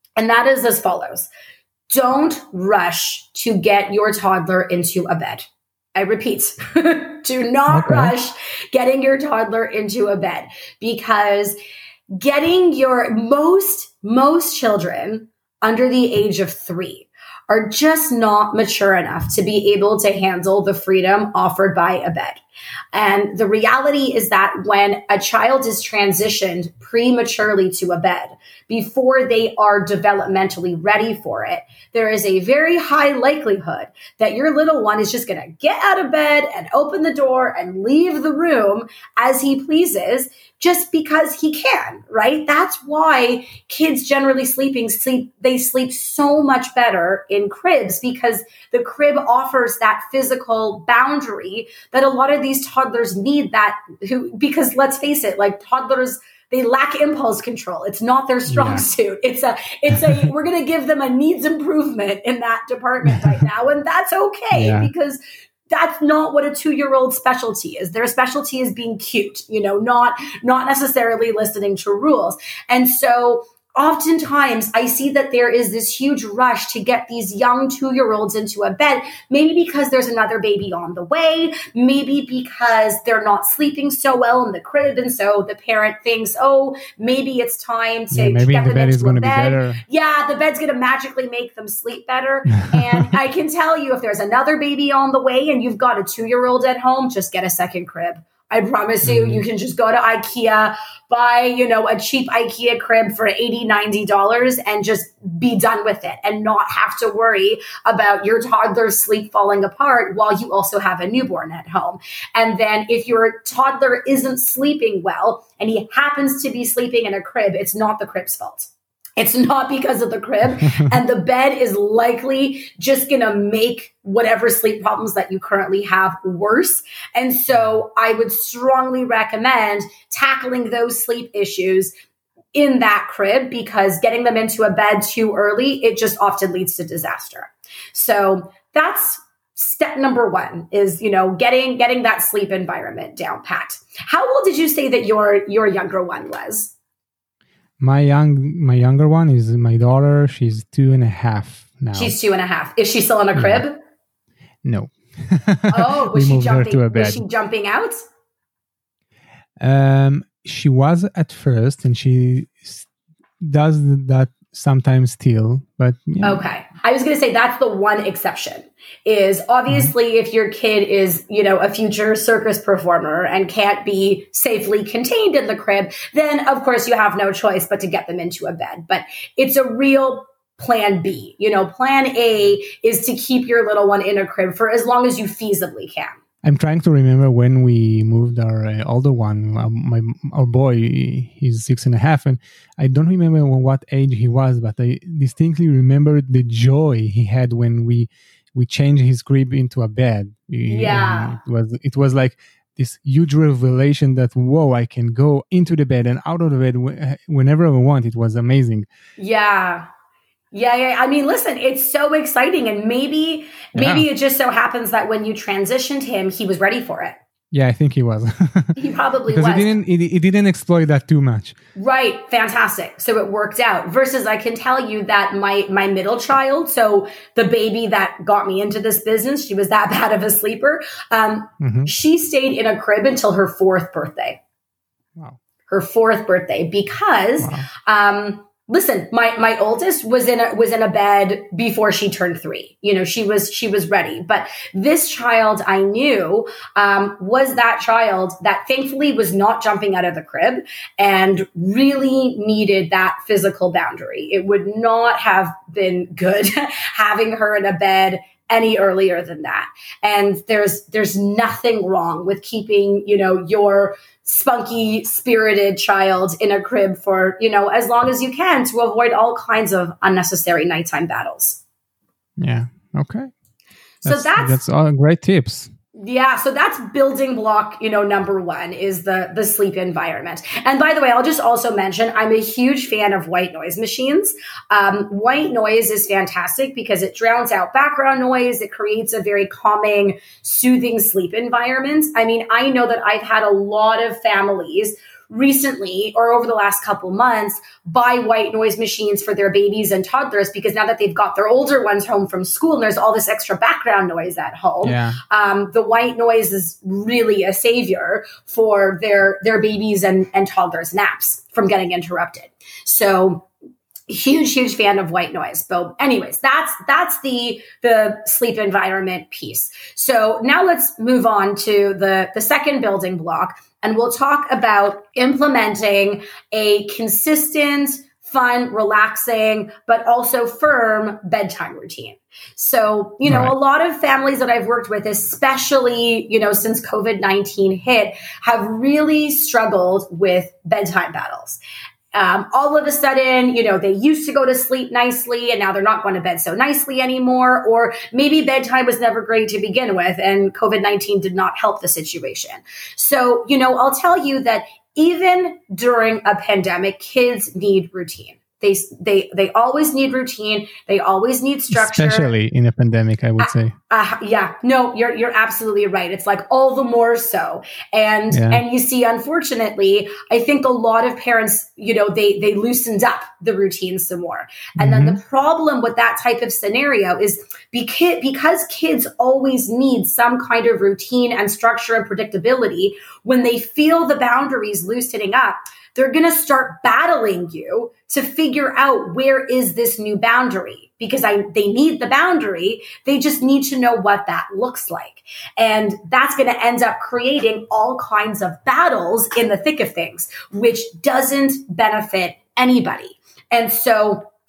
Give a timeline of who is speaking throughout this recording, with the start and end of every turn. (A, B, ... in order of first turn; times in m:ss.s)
0:00.2-0:01.3 A
0:01.9-0:11.6 A
0:07.7-0:08.1 B
0:12.2-0:22.4 A
0:22.9-1:05.2 A
0:58.5-0:58.8 B
1:04.5-1:04.9 B
1:05.7-2:11.9 A
1:28.1-1:29.8 B
1:39.0-1:39.4 B
2:12.6-2:26.7 A
2:27.8-2:32.2 B
2:31.9-2:33.8 A
2:33.4-2:33.6 B
2:34.6-2:37.2 B
2:35.7-2:38.0 A
2:39.6-2:42.9 B
2:43.4-2:46.4 B
2:46.2-3:06.2 A
3:06.4-3:28.9 B
3:20.7-3:21.4 A
3:29.2-3:29.9 A
3:30.5-3:37.2 A
3:33.8-3:34.1 B
3:37.5-3:38.8 B
3:38.8-3:39.7 A
3:39.3-3:41.6 B
3:41.8-3:54.4 A
3:51.6-3:51.9 B
3:55.7-4:31.6 A
3:57.4-3:57.7 B
4:32.4-4:33.3 B
4:34.0-4:34.6 A
4:34.0-4:35.7 B
4:36.0-5:13.5 A
5:04.8-5:05.2 B
5:14.1-5:41.6 A
5:33.3-5:33.6 B
5:42.1-6:02.3 A
6:01.7-6:03.8 B
6:03.4-6:44.3 A
6:08.3-6:08.6 B
6:14.8-6:15.2 B